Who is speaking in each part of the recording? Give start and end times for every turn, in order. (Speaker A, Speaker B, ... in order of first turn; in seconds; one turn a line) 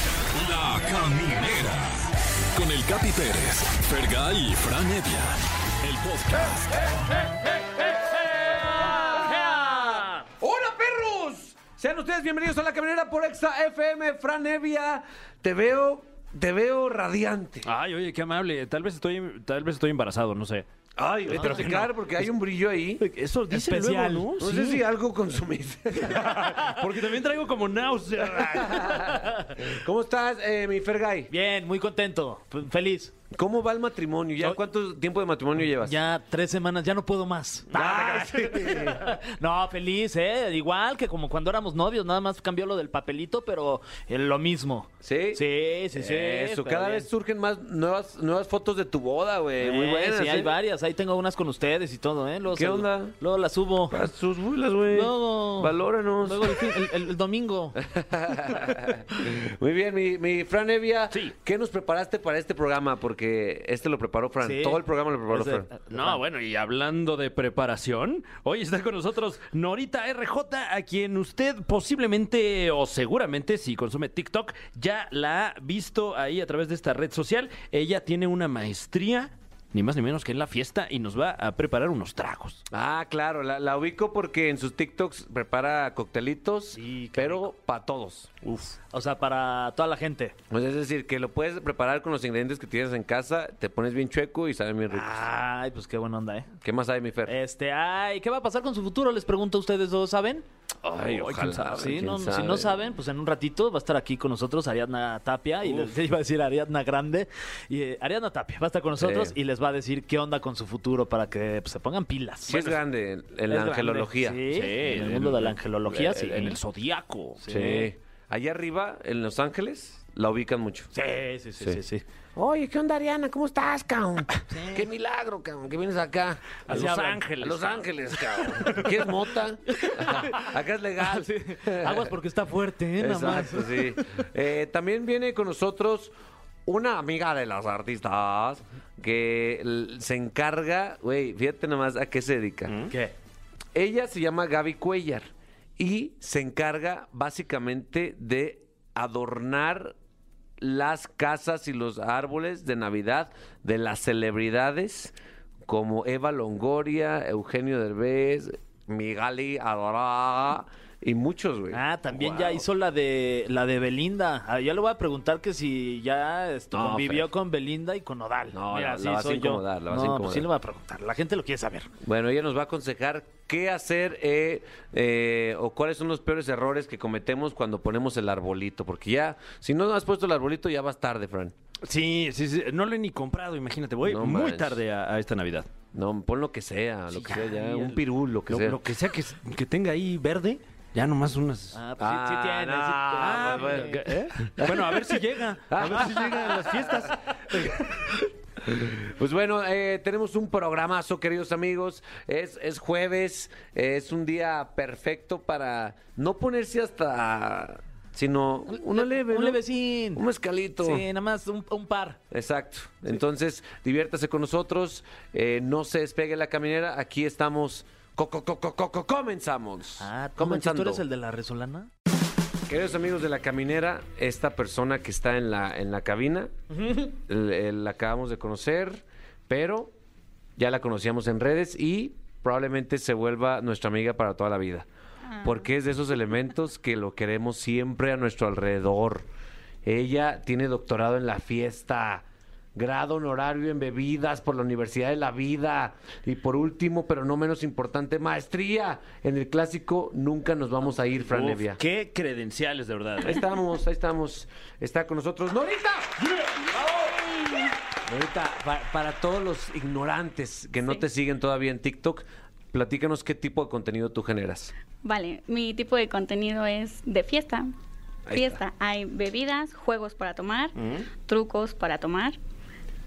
Speaker A: 0.3-6.9
Speaker B: 7.7-17.7
Speaker C: 17.6-20.7
Speaker B: 21.0-23.1
Speaker D: 21.3-21.9
Speaker C: 21.3-21.9
Speaker C: 23.0-24.8
Speaker D: 23.5-24.6
Speaker B: 24.4-26.6
Speaker C: 26.0-29.1
Speaker B: 28.4-31.3
Speaker D: 29.1-29.5
Speaker D: 31.3-33.1
Speaker B: 33.3-36.0
Speaker D: 35.8-47.1
Speaker B: 37.7-39.1
Speaker B: 45.0-45.4
Speaker B: 45.9-50.5
Speaker D: 49.6-54.1
Speaker B: 52.5-53.2
Speaker B: 53.9-56.6
Speaker D: 54.9-57.8
Speaker B: 57.8-65.7
Speaker D: 64.4-66.2
Speaker C: 65.9-82.6
Speaker B: 82.7-88.3
Speaker D: 86.8-87.5
Speaker C: 88.5-88.7
Speaker D: 88.5-90.4
Speaker B: 90.5-95.3
Speaker D: 94.9-96.5
Speaker B: 96.6-97.4
Speaker D: 97.3-112.8
Speaker B: 100.8-102.7
Speaker C: 105.6-106.0
Speaker B: 109.0-109.4
Speaker B: 112.5-114.4
Speaker D: 113.5-116.6
Speaker C: 114.5-115.6
Speaker B: 115.9-116.6
Speaker C: 116.2-117.9
Speaker D: 117.4-117.8
Speaker B: 117.5-120.9
Speaker D: 120.9-122.0
Speaker B: 122.4-132.2
Speaker D: 124.5-124.9
Speaker D: 126.7-127.2
Speaker C: 126.7-127.9
Speaker C: 128.4-128.8
Speaker D: 129.7-134.3
Speaker B: 133.0-136.1
Speaker B: 136.7-142.8
Speaker C: 142.7-142.9
Speaker B: 143.7-150.0
Speaker B: 150.6-155.1
Speaker B: 155.7-161.8
Speaker D: 161.7-171.9
Speaker C: 162.2-162.6
Speaker B: 166.7-167.3
Speaker B: 168.5-170.5
Speaker B: 172.0-181.6
Speaker C: 181.8-185.7
Speaker B: 184.0-184.8
Speaker B: 185.9-188.8
Speaker C: 187.2-188.0
Speaker C: 188.5-191.8
Speaker D: 191.7-194.3
Speaker B: 192.0-195.1
Speaker C: 193.2-197.8
Speaker B: 195.7-211.0
Speaker D: 208.7-210.2
Speaker D: 210.8-212.2
Speaker B: 212.3-221.0
Speaker D: 220.0-221.9
Speaker B: 222.7-226.5
Speaker D: 226.7-227.1
Speaker B: 227.3-229.9
Speaker B: 230.6-234.9
Speaker E: 235.2-235.7
Speaker B: 235.4-239.3
Speaker B: 239.8-242.2
Speaker B: 242.8-251.8
Speaker C: 251.2-253.4
Speaker B: 253.2-256.2
Speaker B: 258.1-264.7
Speaker E: 265.0-267.7
Speaker B: 268.3-268.6
Speaker E: 268.3-272.4
Speaker C: 270.8-271.1